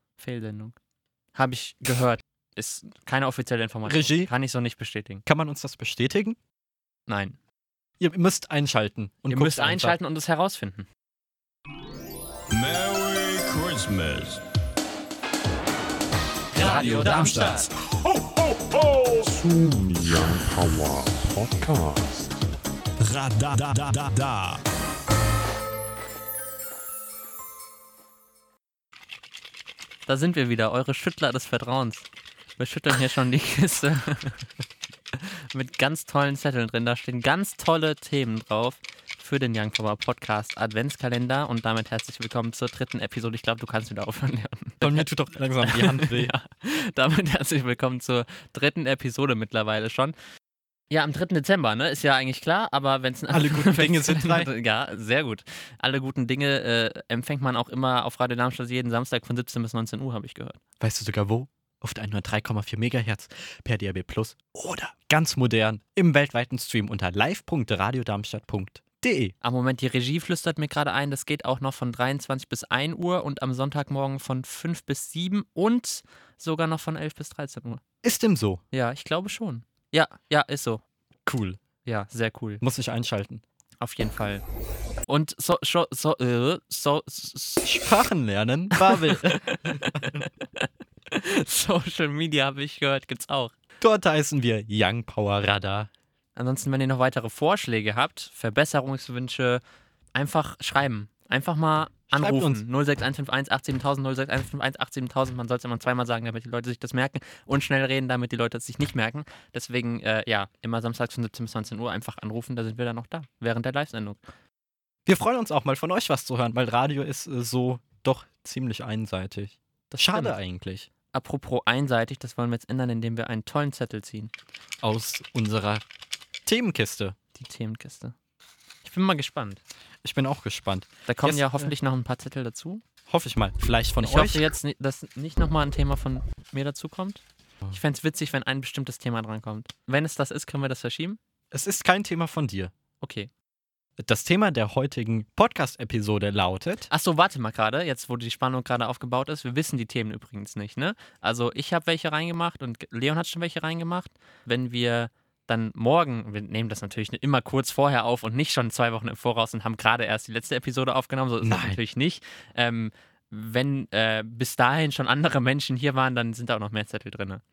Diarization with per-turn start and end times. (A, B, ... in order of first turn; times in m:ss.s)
0:00.2-0:00.8 A
0:01.3-0:05.2 A
0:03.8-0:04.3 B
0:05.2-0:06.4 B
0:07.1-0:07.4 A
0:08.0-0:10.0 B
0:09.3-0:10.9 A
0:12.5-0:14.4 C
0:16.5-0:17.6 A
0:16.6-0:17.6 C
0:19.2-0:21.9 C
0:23.1-0:24.6 C
0:30.0-0:32.1 A
0:32.6-0:34.4 A
0:35.2-0:45.0 A
0:44.8-0:46.3 B
0:45.6-0:50.1 A
0:50.9-1:00.6 A
0:53.3-0:54.5 B
1:00.8-1:09.3 B
1:09.4-1:17.8 A
1:18.0-1:18.6 B
1:18.7-1:20.8 A
1:21.2-1:21.6 B
1:21.8-1:22.6 A
1:22.6-1:23.4 B
1:23.8-1:24.4 A
1:25.1-1:27.9 A
1:27.6-1:30.2 B
1:29.1-1:33.5 A
1:33.8-1:35.9 B
1:36.3-1:39.6 A
1:40.1-1:54.2 A
1:42.1-1:42.6 B
1:55.0-2:00.9 B
2:01.1-2:04.3 A
2:04.8-2:05.8 B
2:06.4-2:07.2 B
2:07.3-2:08.1 A
2:08.8-2:09.6 A
2:10.0-2:11.7 B
2:11.1-2:12.8 A
2:13.1-2:14.5 B
2:14.0-2:21.2 A
2:21.5-2:22.7 B
2:23.0-2:23.3 A
2:24.0-2:26.9 B
2:26.9-2:47.4 A
2:41.4-2:41.8 B